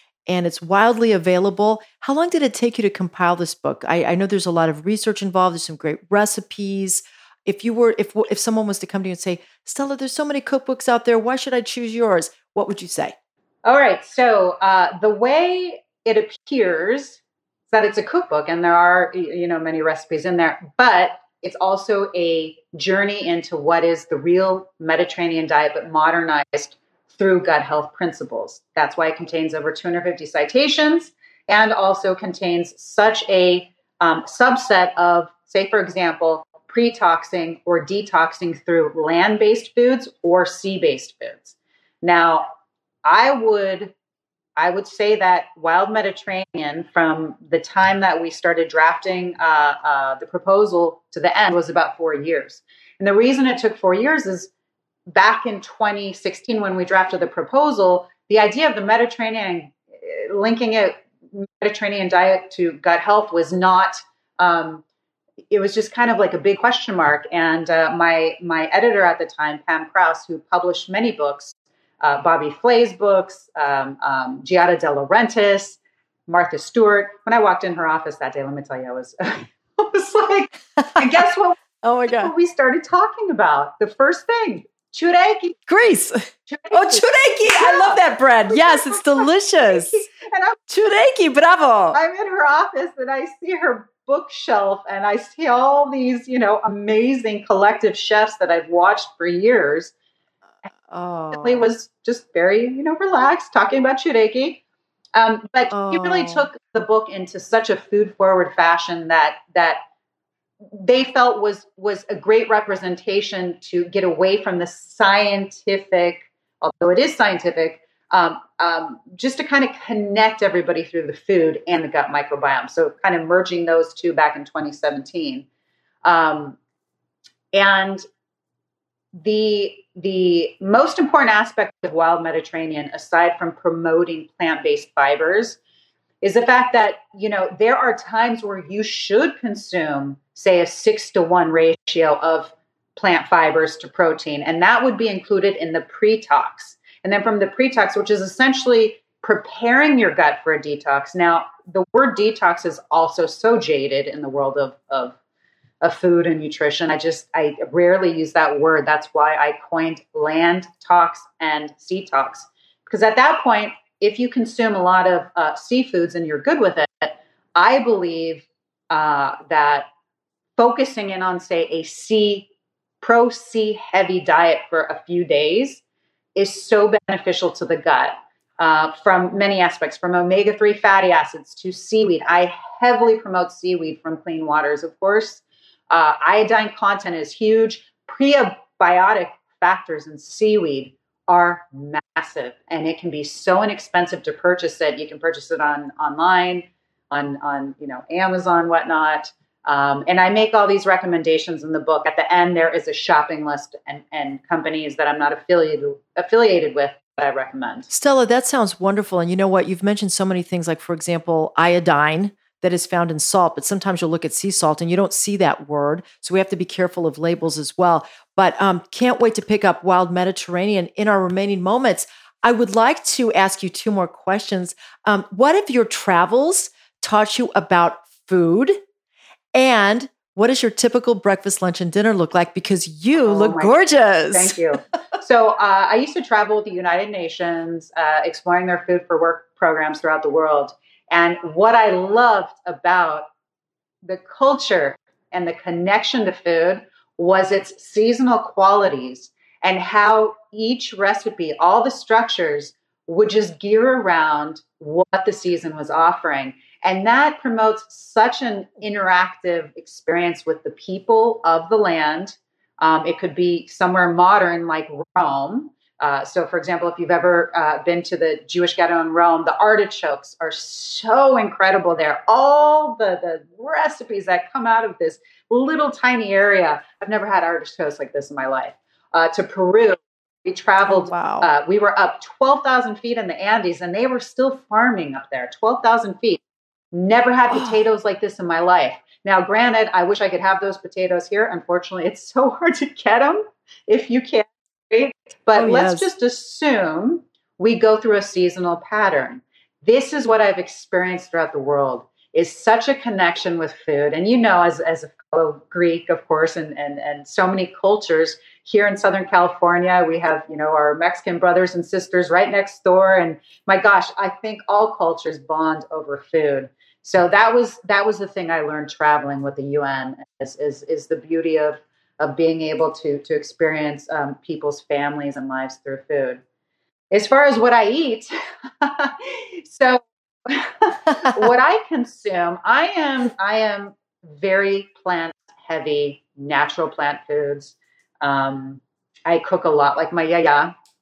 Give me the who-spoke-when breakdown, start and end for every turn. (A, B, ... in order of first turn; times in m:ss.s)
0:00.3-0:13.2 A
0:13.6-0:42.5 B
0:43.0-0:43.9 B
0:44.6-0:54.5 B
0:55.1-1:04.8 B
1:05.5-1:25.6 B
1:20.8-1:21.1 A
1:21.8-1:22.3 A
1:25.7-1:30.1 A
1:26.5-1:30.6 B
1:30.7-1:32.0 A
1:31.9-1:39.9 B
1:40.7-1:41.7 A
1:41.3-1:44.6 B
1:45.1-1:49.8 B
1:45.7-1:46.5 A
1:50.7-2:05.5 B
2:06.0-2:06.6 B
2:07.5-2:08.0 B
2:09.2-2:15.6 B
2:16.2-2:35.2 B
2:35.8-2:49.9 B
2:50.6-2:52.5 B
2:53.0-2:55.8 B
2:56.4-3:27.9 B
3:27.9-3:48.8 A
3:49.5-3:54.6 A
3:53.2-3:53.8 B
3:54.3-4:03.3 B
4:04.0-4:46.4 B
4:40.8-4:41.5 A
4:46.9-5:26.4 B
4:55.6-4:56.1 A
5:27.1-5:40.7 B